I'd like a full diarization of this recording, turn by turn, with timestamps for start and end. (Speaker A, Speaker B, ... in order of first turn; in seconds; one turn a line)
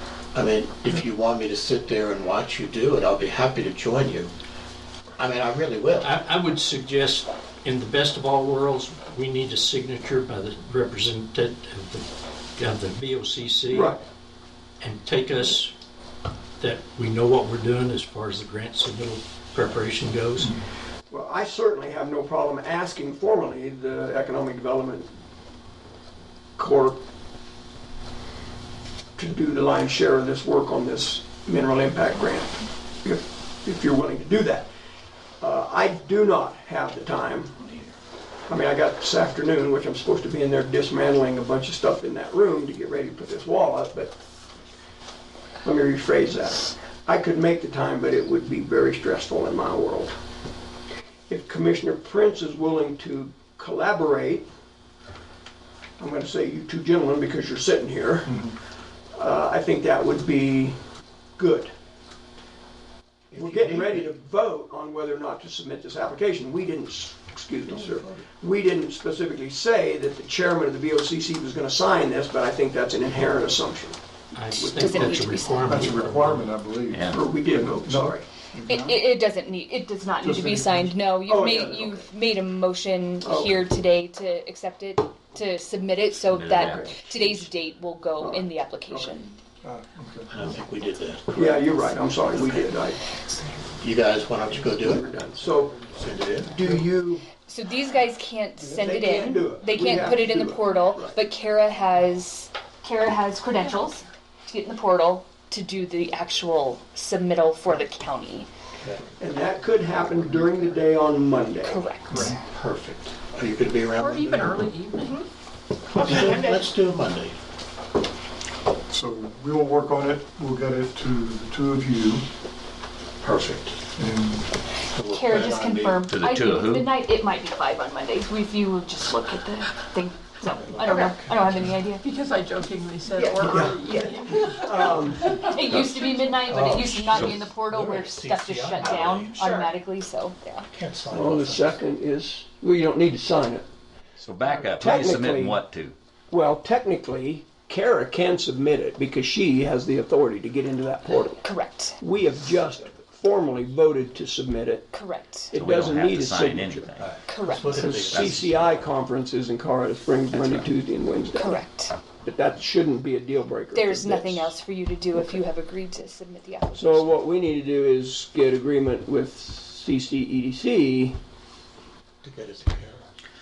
Speaker A: 0.3-4.3
Speaker A: 5.2-6.1
Speaker B: 6.0-14.0
Speaker C: 13.7-14.0
Speaker B: 14.8-15.7
Speaker B: 16.6-20.6
Speaker C: 21.1-25.1
Speaker C: 26.6-27.0
Speaker C: 29.2-34.7
Speaker C: 35.4-37.9
Speaker C: 38.5-44.1
Speaker C: 45.6-50.1
Speaker C: 51.3-54.4
Speaker C: 56.0-58.4
Speaker D: 58.3-58.5
Speaker C: 59.1-60.8
Speaker C: 61.4-61.7
Speaker A: 63.3-64.1
Speaker C: 63.3-74.0
Speaker A: 67.7-68.2
Speaker B: 74.3-76.5
Speaker C: 74.5-75.4
Speaker E: 74.8-75.7
Speaker D: 75.6-79.1
Speaker F: 76.9-77.3
Speaker C: 77.1-78.3
Speaker E: 78.7-89.4
Speaker D: 80.2-81.0
Speaker C: 81.2-82.1
Speaker C: 83.2-83.6
Speaker F: 86.2-87.5
Speaker C: 86.5-87.0
Speaker C: 88.2-88.5
Speaker D: 89.6-90.3
Speaker A: 90.3-92.7
Speaker C: 91.3-93.0
Speaker A: 93.8-95.0
Speaker C: 94.6-95.8
Speaker A: 95.9-96.6
Speaker C: 96.4-97.3
Speaker E: 97.4-108.5
Speaker C: 98.7-101.2
Speaker A: 108.8-109.0
Speaker C: 109.2-111.8
Speaker E: 111.6-112.3
Speaker D: 112.1-112.4
Speaker A: 112.1-114.7
Speaker G: 114.0-115.2
Speaker A: 115.9-117.4
Speaker D: 118.9-122.2
Speaker A: 123.2-123.8
Speaker D: 124.0-124.5
Speaker A: 124.9-126.0
Speaker E: 125.0-132.1
Speaker F: 126.1-126.9
Speaker A: 130.5-131.7
Speaker G: 132.0-136.1
Speaker C: 133.1-135.4
Speaker E: 135.5-140.7
Speaker A: 136.5-139.4
Speaker A: 140.7-141.8
Speaker C: 141.1-143.6
Speaker F: 144.2-145.9
Speaker C: 144.8-145.6
Speaker C: 146.3-151.5
Speaker E: 151.4-152.0
Speaker C: 152.0-154.9
Speaker E: 154.9-155.6
Speaker C: 155.5-156.9
Speaker F: 155.5-157.2
Speaker A: 157.0-158.9
Speaker E: 157.2-157.9
Speaker C: 157.7-161.6
Speaker F: 160.3-160.6
Speaker E: 161.3-162.0
Speaker C: 162.2-164.5
Speaker E: 163.7-167.1
Speaker C: 166.7-171.2
Speaker A: 172.2-173.1